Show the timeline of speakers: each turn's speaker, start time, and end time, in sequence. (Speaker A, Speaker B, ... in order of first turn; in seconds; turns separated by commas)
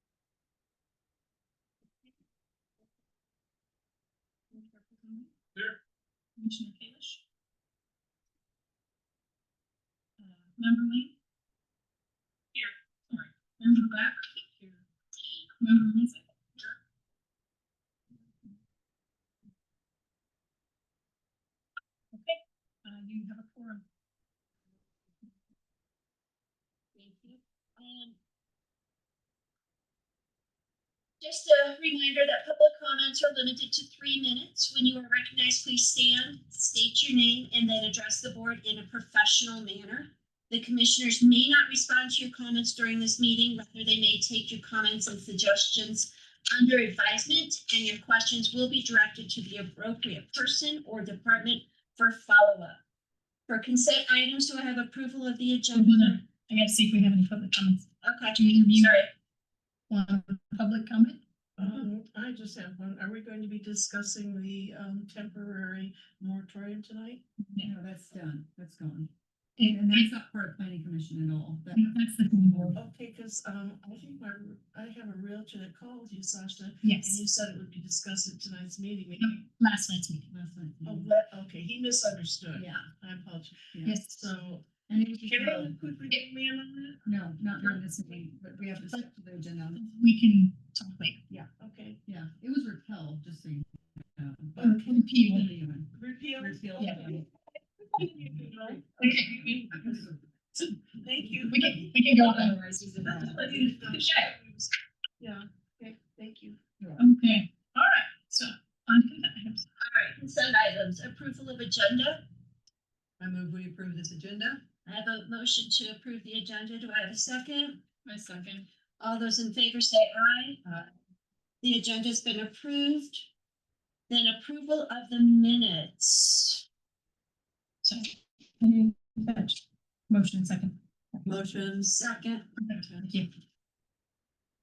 Speaker A: 4.5-5.3, Speaker A: 6.4-7.2, Speaker A: 10.2-11.1, Speaker A: 12.5-14.8, Speaker A: 15.6-16.8, Speaker A: 22.1-23.8, Speaker B: 26.9-28.2, Speaker B: 31.2-52.8, Speaker B: 53.5-56.2, Speaker A: 55.7-59.1, Speaker B: 58.0-59.1, Speaker A: 59.9-61.2, Speaker C: 61.6-67.2, Speaker A: 67.4-67.7, Speaker D: 67.6-72.8, Speaker A: 69.6-70.1, Speaker A: 71.7-72.8, Speaker C: 72.8-79.3, Speaker A: 76.8-77.2, Speaker A: 79.2-80.3, Speaker D: 80.3-81.1, Speaker C: 80.8-84.7, Speaker D: 82.5-82.9, Speaker D: 83.7-84.0, Speaker A: 83.8-84.3, Speaker D: 84.8-85.8, Speaker C: 85.3-87.0, Speaker D: 87.0-89.8, Speaker A: 89.7-91.2, Speaker C: 91.6-92.0, Speaker D: 92.0-97.2, Speaker C: 94.6-95.0, Speaker A: 94.6-95.5, Speaker C: 95.9-97.2, Speaker A: 96.8-97.0, Speaker C: 97.9-100.0, Speaker A: 99.0-99.6, Speaker D: 99.5-100.2, Speaker C: 100.9-101.9, Speaker A: 101.5-102.5, Speaker B: 102.2-103.9, Speaker C: 103.0-104.7, Speaker A: 103.1-104.3, Speaker C: 105.2-106.6, Speaker A: 107.0-109.6, Speaker B: 109.8-112.2, Speaker C: 113.2-114.6, Speaker B: 114.8-117.8, Speaker A: 118.0-118.7, Speaker B: 119.0-120.6, Speaker B: 121.6-123.3, Speaker B: 124.1-126.6, Speaker A: 127.8-131.2, Speaker B: 131.3-132.4, Speaker C: 131.3-131.6, Speaker A: 132.6-133.3